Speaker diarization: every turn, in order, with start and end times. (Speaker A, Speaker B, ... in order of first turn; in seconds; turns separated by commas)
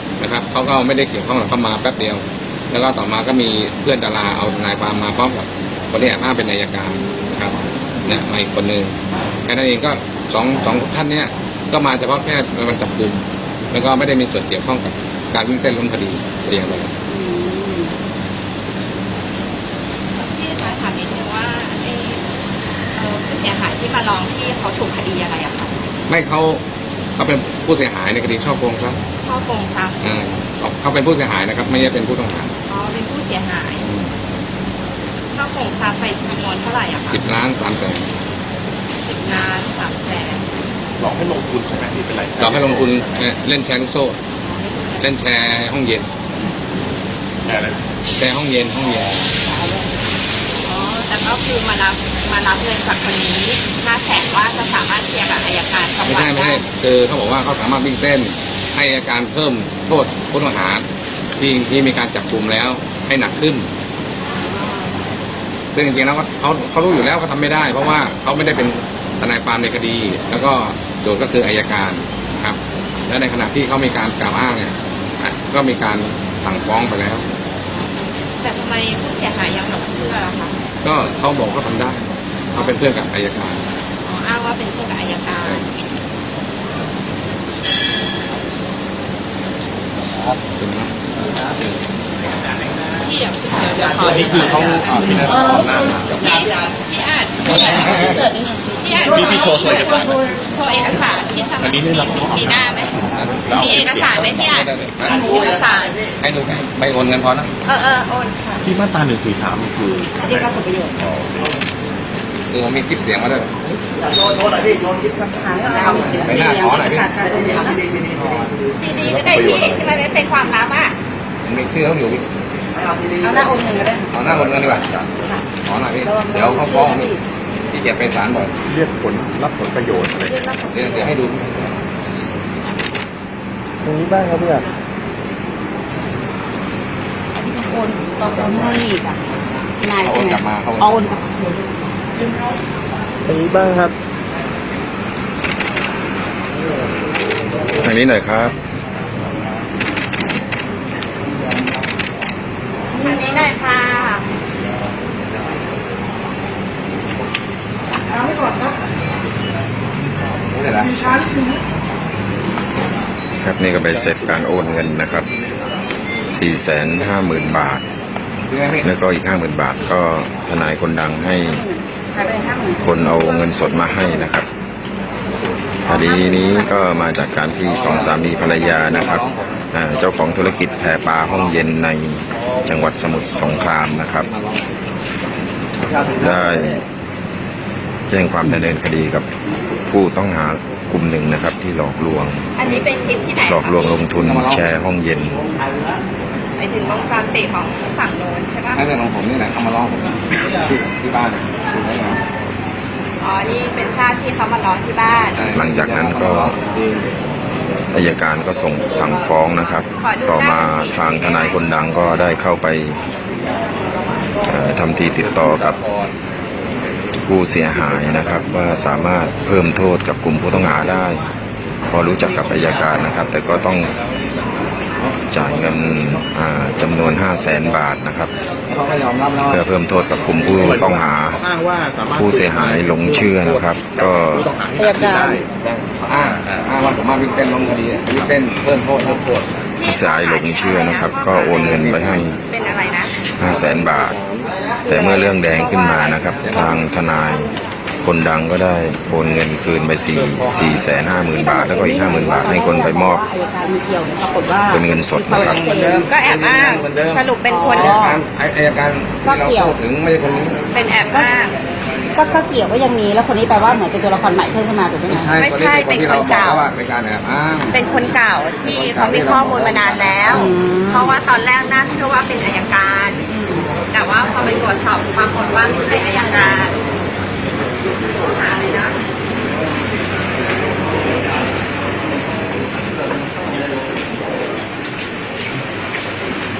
Speaker A: 0.2-16.9, Speaker B: 6.8-8.2, Speaker B: 17.1-17.9, Speaker C: 20.2-22.2, Speaker C: 22.9-25.7, Speaker A: 26.1-26.6, Speaker A: 27.2-29.0, Speaker C: 29.2-30.1, Speaker A: 30.0-32.5, Speaker C: 32.7-33.9, Speaker A: 33.8-34.1, Speaker C: 35.3-37.2, Speaker A: 37.0-38.1, Speaker C: 39.0-40.5, Speaker D: 41.0-43.3, Speaker A: 42.4-44.2, Speaker C: 44.5-45.0, Speaker A: 45.0-46.0, Speaker D: 47.4-47.8, Speaker A: 48.1-49.2, Speaker B: 49.3-49.9, Speaker C: 50.6-56.6, Speaker A: 56.0-60.8, Speaker A: 61.4-63.7, Speaker A: 65.7-77.2, Speaker C: 78.4-80.5, Speaker A: 80.8-83.7, Speaker C: 84.0-85.6, Speaker A: 90.3-90.9, Speaker C: 93.0-95.0, Speaker A: 94.3-96.4, Speaker C: 96.2-98.2, Speaker B: 97.5-99.4, Speaker A: 97.7-98.2, Speaker C: 98.8-106.0, Speaker D: 99.3-100.1, Speaker D: 101.6-104.3, Speaker A: 103.1-105.3, Speaker A: 106.2-107.5, Speaker C: 107.6-108.7, Speaker D: 108.7-110.1, Speaker B: 110.2-111.0, Speaker D: 111.1-111.5, Speaker A: 112.5-113.5, Speaker B: 115.2-117.8, Speaker A: 116.2-117.1, Speaker C: 118.8-121.0, Speaker D: 119.1-120.0, Speaker A: 121.4-122.2, Speaker B: 123.2-124.1, Speaker A: 124.1-125.0, Speaker B: 125.1-125.5, Speaker A: 125.6-127.1, Speaker B: 126.0-127.2, Speaker A: 127.7-128.5, Speaker D: 128.7-130.4, Speaker B: 130.2-131.2, Speaker A: 130.7-131.6, Speaker B: 137.3-139.2, Speaker B: 139.8-141.3, Speaker A: 140.0-141.1, Speaker E: 147.8-148.5, Speaker C: 153.0-154.2, Speaker A: 160.5-161.2, Speaker E: 163.4-165.3, Speaker E: 166.3-167.8, Speaker A: 168.5-168.9, Speaker E: 168.8-171.6, Speaker B: 171.4-173.5, Speaker E: 172.8-174.5, Speaker E: 175.8-184.3, Speaker A: 177.7-179.6, Speaker A: 183.6-184.7, Speaker E: 186.1-186.8, Speaker E: 188.1-189.2, Speaker E: 189.9-192.5, Speaker C: 192.6-194.1, Speaker E: 193.4-195.4, Speaker A: 194.1-194.7, Speaker C: 196.6-198.8, Speaker A: 198.7-202.2, Speaker C: 203.2-205.4, Speaker A: 205.3-207.1, Speaker E: 205.5-206.6, Speaker E: 207.9-213.0, Speaker C: 210.0-211.7, Speaker E: 214.4-215.8, Speaker A: 215.2-216.2, Speaker A: 216.8-217.2, Speaker E: 217.3-221.2, Speaker E: 221.9-223.9, Speaker A: 225.0-226.1, Speaker E: 225.3-228.3, Speaker A: 228.7-229.6, Speaker E: 229.5-231.4, Speaker D: 230.6-235.5, Speaker E: 232.1-234.5, Speaker B: 234.8-235.4, Speaker A: 235.5-239.4, Speaker D: 236.1-236.6, Speaker C: 239.8-243.1, Speaker E: 239.8-242.4, Speaker E: 243.4-244.2, Speaker A: 244.1-244.4, Speaker E: 244.9-253.2, Speaker C: 245.0-245.9, Speaker A: 246.4-246.8, Speaker A: 250.1-250.7, Speaker B: 251.3-256.1, Speaker E: 254.7-255.6, Speaker A: 255.3-260.6, Speaker C: 255.9-258.0, Speaker B: 257.4-258.2, Speaker B: 259.2-259.8, Speaker C: 260.7-261.5, Speaker B: 262.1-265.3, Speaker A: 265.1-267.8, Speaker C: 265.4-266.6, Speaker C: 267.7-273.2, Speaker A: 268.6-270.5, Speaker B: 270.3-271.1, Speaker B: 273.3-273.6, Speaker C: 273.9-276.8, Speaker C: 278.1-279.0